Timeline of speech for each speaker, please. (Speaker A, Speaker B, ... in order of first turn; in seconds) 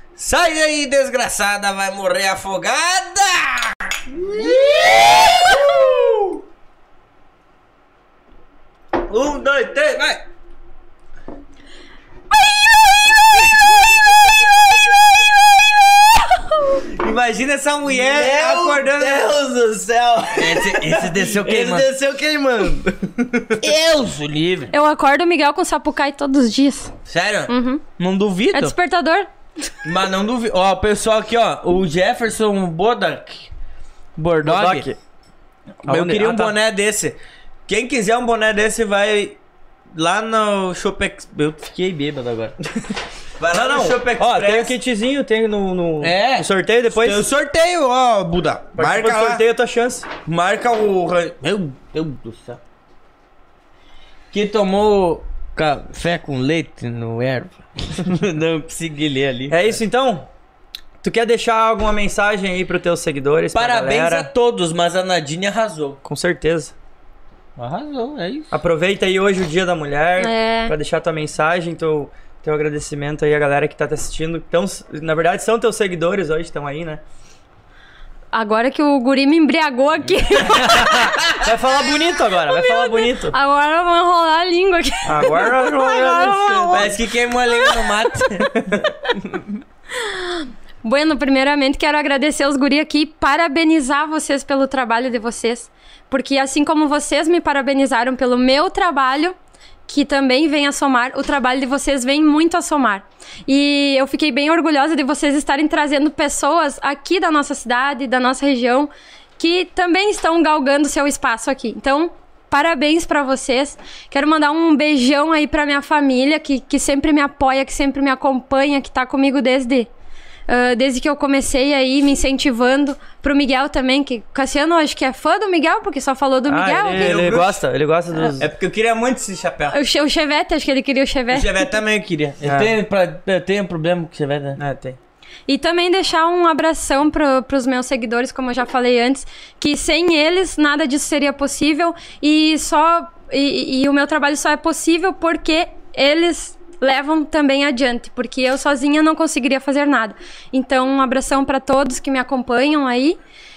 Speaker A: 0.1-6.3, 9.0-10.2, 16.9-19.3, 20.3-21.9, 23.6-24.7, 27.1-28.7, 29.8-33.5, 34.1-34.9, 35.8-39.4, 39.9-42.5, 43.4-44.7, 46.0-49.4, 50.2-52.6, 54.3-59.8, 63.5-66.0, 67.6-68.5, 80.7-81.4, 86.7-88.8, 127.0-127.6, 128.4-129.8, 131.3-134.6
Speaker B: 4.3-5.0, 5.5-5.9, 12.9-13.4, 17.8-23.7, 34.4-35.0, 35.8-36.5, 43.5-47.3, 48.7-50.1, 59.5-60.3, 61.0-64.3, 66.0-66.7, 68.5-77.0, 81.3-83.3, 85.0-86.9, 88.5-88.8, 126.5-128.5, 132.4-132.7, 134.6-135.0
Speaker C: 24.7-26.9, 27.5-27.8, 28.5-29.7, 70.2-70.7, 78.3-81.2, 82.4-86.9, 87.5-88.0, 89.9-99.3, 99.9-119.9, 120.5-127.4, 129.7-131.7, 135.5-153.2